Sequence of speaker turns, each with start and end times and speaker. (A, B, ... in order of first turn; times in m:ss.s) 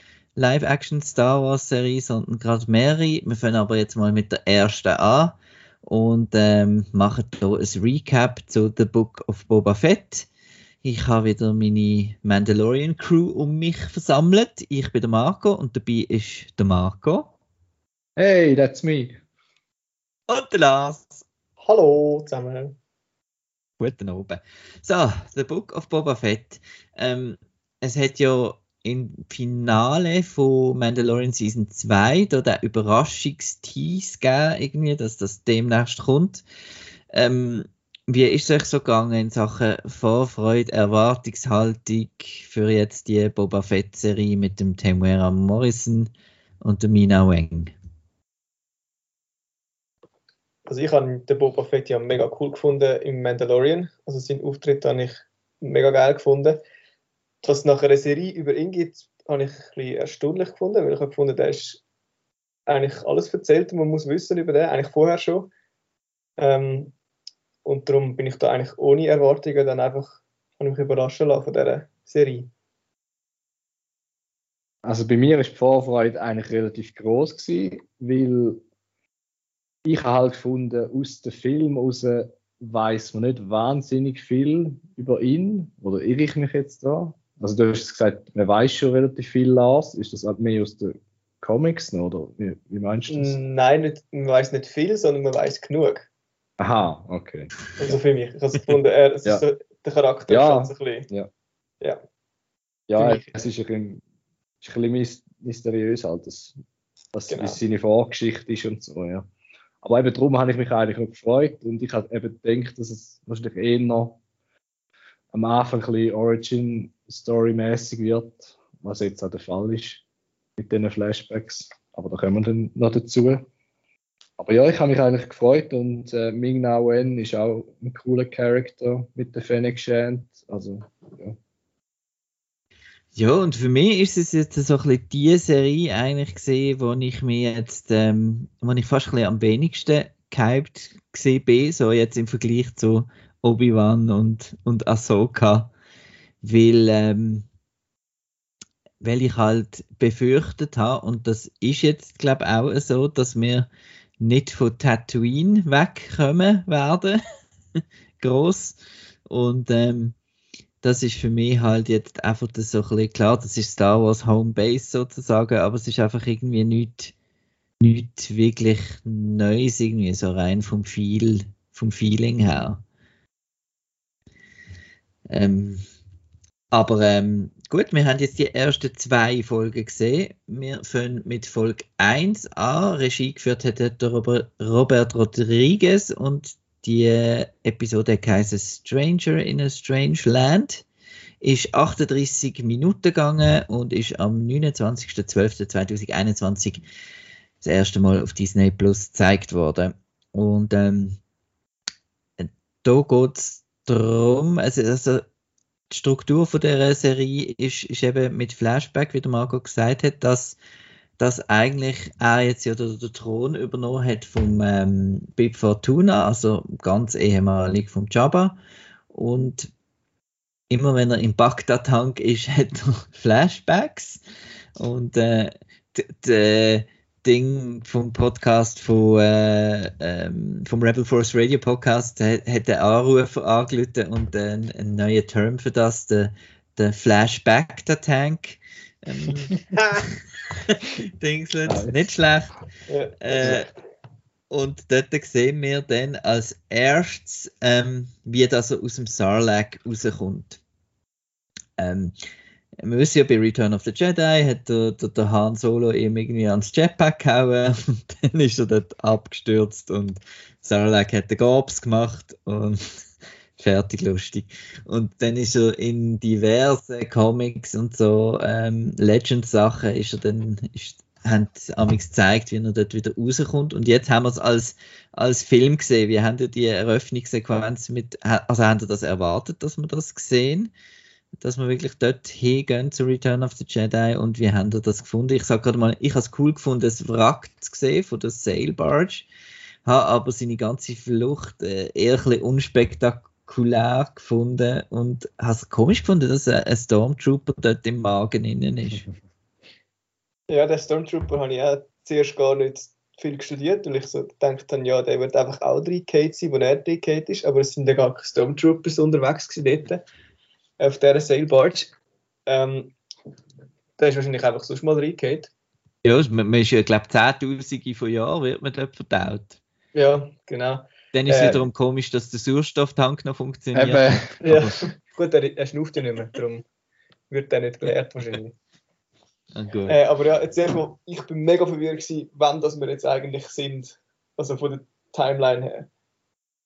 0:00.4-0:10.3 A
0:10.8-0:17.3 A
0:18.2-0:19.2 B
0:20.3-0:21.2 A
0:21.6-0:22.8 C
0:23.8-0:36.4 A
0:37.1-0:47.7 A
0:50.7-0:56.6 C
0:57.4-1:01.8 C
1:02.7-1:05.5 C
1:06.4-1:06.9 C
1:07.6-1:12.5 C
1:14.8-1:18.6 B
1:19.8-1:33.4 B
1:33.1-1:36.1 C
1:36.6-1:38.0 B
1:37.8-1:41.1 C
1:40.3-1:41.3 B
1:42.9-1:44.0 B
1:43.0-1:43.3 C
1:44.6-1:46.6 B
1:47.1-1:49.3 B
1:47.3-1:47.6 C
1:49.8-1:54.2 B
1:55.3-2:00.0 B
2:00.6-2:03.5 B
2:04.4-2:11.4 B
2:13.2-2:25.7 A
2:26.4-2:27.5 A
2:29.0-2:33.7 A
2:34.2-2:37.2 A
2:38.2-2:38.8 A
2:39.3-2:40.2 A
2:40.8-2:47.1 A
2:47.8-2:52.8 A
2:55.3-2:55.8 A
2:56.7-3:10.8 A
3:11.4-3:16.8 A
3:17.6-3:21.2 A
3:22.4-3:25.2 A
3:25.9-3:30.6 A
3:31.2-3:38.6 A
3:39.1-3:39.7 A
3:40.7-3:44.2 A
3:44.8-4:02.5 A
4:01.7-4:02.0 B
4:02.9-4:03.6 C
4:03.2-4:03.7 A
4:04.5-4:10.6 A
4:11.8-4:12.1 A
4:12.8-4:22.8 A
4:23.6-4:40.7 A
4:41.4-4:49.3 A
4:49.8-4:59.0 A
5:00.5-5:10.0 C
5:10.8-5:11.9 C
5:12.5-5:13.0 C
5:14.0-5:15.5 C
5:16.0-5:19.6 A
5:19.9-5:21.7 C
5:21.1-5:24.6 A
5:23.7-5:24.5 B
5:24.4-5:26.6 C
5:27.3-5:28.5 C
5:29.5-5:30.0 A
5:29.9-5:35.9 C